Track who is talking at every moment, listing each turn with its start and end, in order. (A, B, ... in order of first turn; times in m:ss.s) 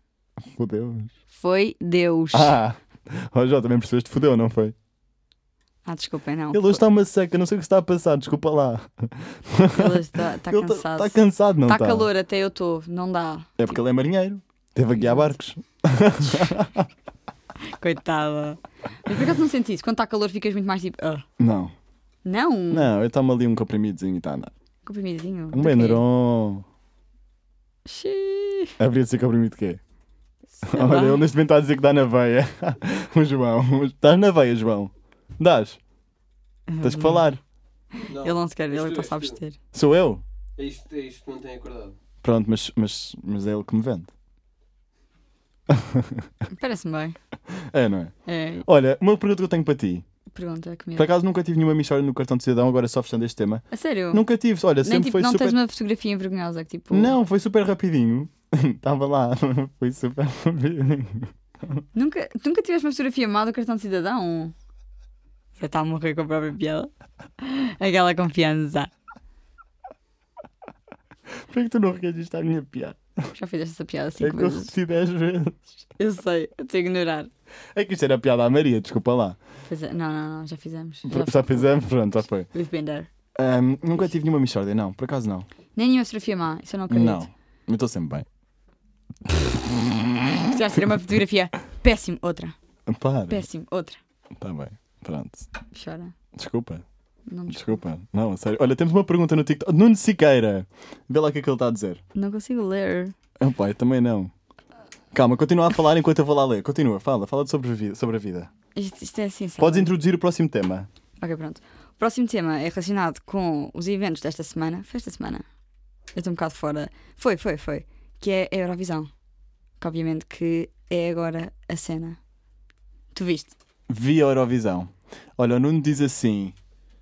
0:00.5-0:01.1 A
0:01.3-0:02.6 B
0:02.3-0:04.7 A
0:05.8-0:06.8 B
0:06.5-0:12.1 A
0:09.7-0:13.8 B
0:13.6-0:16.9 A
0:14.9-0:15.3 B
0:17.8-0:21.2 B
0:21.4-0:21.7 A
0:22.2-0:22.9 B
0:22.7-0:24.5 A
0:24.8-0:26.0 B
0:25.5-0:26.6 A
0:27.8-0:28.7 B
0:28.8-0:29.8 A
0:30.5-0:31.3 B
0:30.6-0:35.8 A
0:36.7-0:37.3 B
0:36.8-0:37.4 A
0:38.0-0:39.6 B
0:38.1-0:39.4 C
0:39.7-0:40.2 A
0:40.6-0:42.0 C
0:42.2-0:44.1 A
0:45.7-0:46.2 A
0:46.5-0:47.2 B
0:47.5-0:48.1 A
0:48.2-0:48.6 B
0:48.6-0:50.0 A
0:50.3-0:51.1 B
0:51.0-0:55.6 A
0:53.7-0:54.2 B
0:54.8-0:57.1 B
0:56.9-1:01.3 A
1:01.9-1:04.5 B
1:05.6-1:06.9 B
1:07.4-1:08.9 B
1:11.5-1:13.3 A
1:13.3-1:14.7 B
1:14.2-1:15.7 A
1:16.0-1:17.3 B
1:17.7-1:19.4 A
1:19.6-1:21.6 B
1:21.0-1:22.5 A
1:22.5-1:23.1 B
1:23.3-1:25.5 A
1:25.7-1:27.3 B
1:26.9-1:28.2 A
1:29.3-1:30.2 A
1:30.5-1:32.5 B
1:32.9-1:33.4 A
1:33.3-1:34.0 B
1:34.4-1:35.5 A
1:35.7-1:36.1 B
1:36.4-1:36.8 A
1:37.3-1:37.8 B
1:37.5-1:42.0 A
1:42.1-1:43.1 B
1:43.4-1:44.3 A
1:45.1-1:48.5 A
1:48.7-1:49.9 B
1:49.6-1:50.9 A
1:51.2-1:55.4 B
1:56.1-1:59.1 B
1:59.8-2:02.2 B
2:03.1-2:03.5 B
2:03.9-2:06.5 A